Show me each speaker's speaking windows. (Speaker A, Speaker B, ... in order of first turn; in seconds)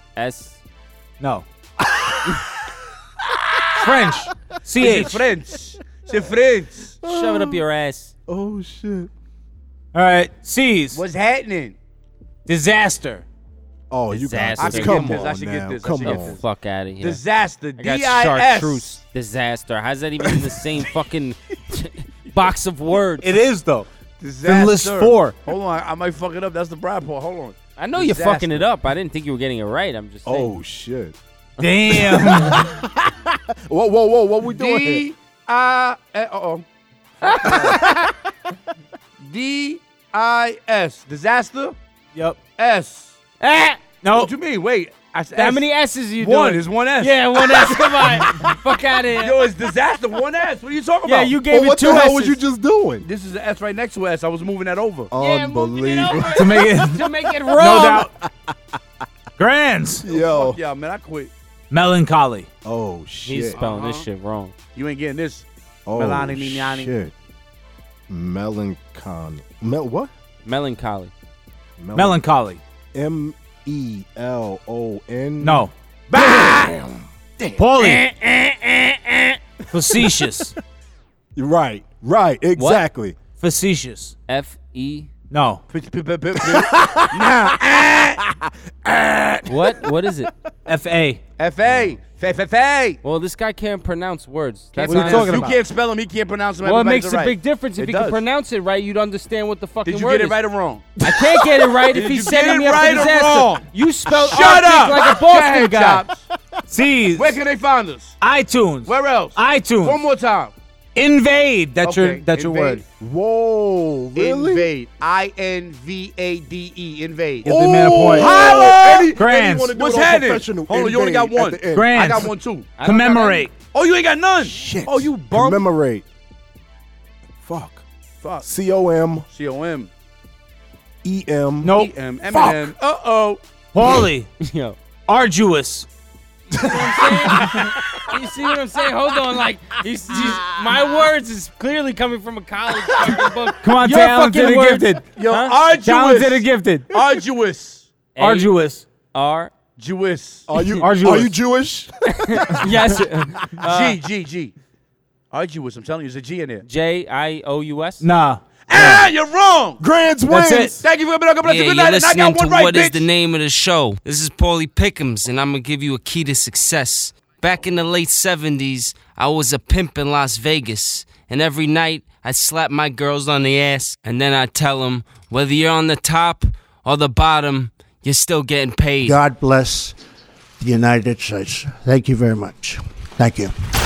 Speaker A: 0.1-0.6, 7.0-8.1, 14.1-15.3, 16.0-17.2, 17.8-23.3, 27.8-30.5, 37.2-38.0, 43.4-44.1, 45.3-49.5, 51.0-52.4, 55.1-58.1, 63.2-64.5, 70.4-71.1, 76.1-76.7, 77.8-79.4, 82.6-82.8, 84.3-85.1, 89.5-90.3, 93.0-95.6, 96.6-100.4, 101.0-106.0, 122.8-123.4, 134.4-134.8, 136.5-145.6, 148.2-148.5, 149.1-149.5, 152.1-154.0, 156.6-158.0
Speaker B: 1.2-1.4, 3.8-5.2, 9.9-11.0, 12.5-13.2, 23.2-23.9, 24.4-25.3, 31.6-32.8, 56.3-57.0, 57.5-58.1, 59.4-60.0, 61.7-62.5, 71.9-72.6, 75.4-75.7, 77.6-78.0, 79.7-80.5, 83.4-84.1, 85.3-85.6, 90.7-91.2, 94.8-95.5, 106.7-107.4, 108.2-110.0, 110.9-112.8, 117.4-119.7, 121.7-123.5, 131.6-131.9, 133.7-134.3, 135.1-135.9, 143.6-145.0, 145.8-146.9, 148.2-148.8, 150.8-151.3, 158.0-159.0, 160.3-160.7
Speaker C: 1.9-2.7, 7.0-7.6, 8.3-9.1, 13.9-16.4, 30.2-31.1, 31.9-35.1, 37.4-38.1, 47.6-48.5, 51.4-53.1, 55.1-58.5, 60.0-60.6, 62.6-63.6, 65.8-67.1, 68.1-70.1, 71.8-72.2, 72.9-77.6, 81.3-83.2, 86.3-90.3, 91.6-92.0, 113.0-114.7, 118.1-122.0, 124.4-126.0, 127.4-127.8, 128.4-129.3, 131.0-131.8, 132.3-132.6, 136.5-138.1, 142.9-143.2, 150.5-153.6, 159.8-160.9
Speaker D: 4.8-6.9, 10.9-11.8, 14.6-16.4, 17.0-19.0, 24.2-28.7, 34.4-36.6, 37.4-37.8, 39.2-41.8, 42.6-43.2, 44.1-47.4, 49.2-51.4, 53.0-55.1, 60.0-61.3, 63.5-64.1, 64.7-66.9, 76.1-76.8, 85.7-88.2, 91.4-93.0, 94.7-98.2, 99.8-101.0, 101.9-106.2, 107.1-108.2, 108.8-110.5, 111.8-112.8, 114.2-122.8, 123.5-125.6, 129.3-129.9, 131.7-133.4, 145.2-147.9, 149.8-150.5, 153.6-154.5, 155.3-156.6, 158.7-159.8, 160.8-163.1
Speaker E: 161.4-179.2
Speaker F: 179.0-179.9, 180.6-183.5